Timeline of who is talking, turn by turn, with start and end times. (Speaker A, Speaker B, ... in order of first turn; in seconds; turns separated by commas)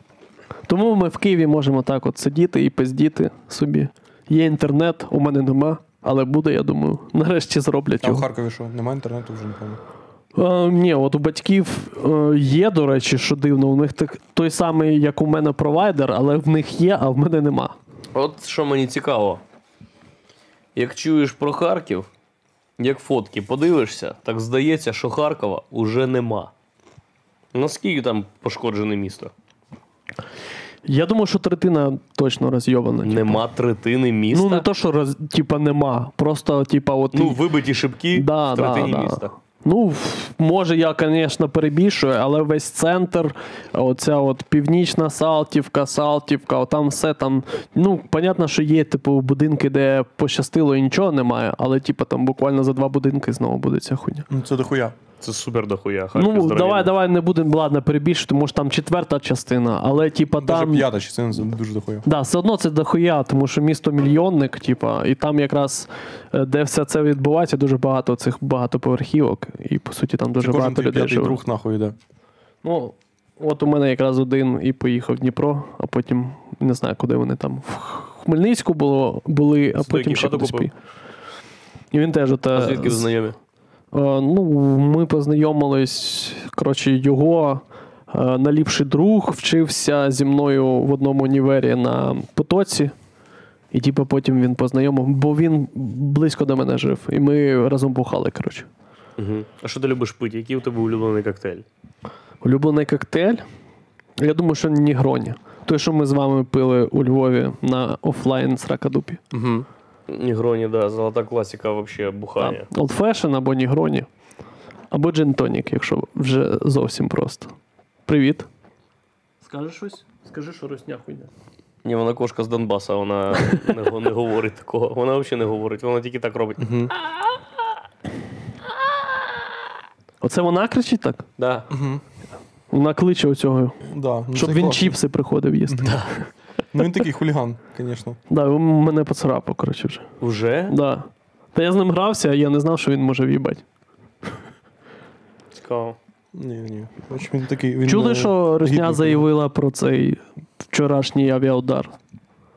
Speaker A: 0.7-8.3, Speaker B: 8.0-9.8, Speaker A: 10.3-17.8, Speaker C: 18.1-19.4, Speaker C: 20.8-22.1, Speaker C: 22.8-26.5, Speaker C: 27.5-29.3, Speaker A: 30.9-33.4, Speaker C: 33.0-34.6, Speaker A: 34.3-37.4, Speaker C: 37.1-39.3, Speaker A: 38.1-54.3, Speaker B: 54.3-55.0, Speaker C: 55.2-56.9, Speaker A: 56.2-60.9, Speaker B: 60.4-62.1, Speaker A: 62.1-71.4, Speaker B: 70.4-72.0, Speaker A: 72.6-80.7, Speaker C: 79.8-80.7, Speaker A: 81.9-83.1, Speaker C: 82.5-83.3, Speaker A: 83.9-92.9, Speaker A: 93.7-98.7, Speaker C: 99.2-101.7, Speaker A: 102.4-103.4, Speaker A: 104.2-109.2, Speaker B: 109.3-109.7, Speaker C: 110.1-112.7, Speaker A: 112.4-114.1, Speaker A: 114.9-117.5, Speaker A: 118.1-118.5, Speaker A: 119.4-121.3, Speaker C: 121.8-126.7, Speaker B: 126.6-126.9, Speaker A: 130.2-131.2, Speaker C: 131.4-131.7, Speaker B: 131.7-132.0, Speaker A: 132.7-133.8, Speaker B: 133.9-135.0, Speaker A: 134.3-136.1, Speaker B: 135.7-136.0, Speaker C: 135.8-136.1, Speaker B: 136.7-138.2, Speaker A: 138.3-140.1, Speaker C: 140.2-140.7, Speaker A: 140.7-143.6, Speaker C: 145.6-146.0, Speaker B: 146.3-149.3, Speaker A: 147.8-151.9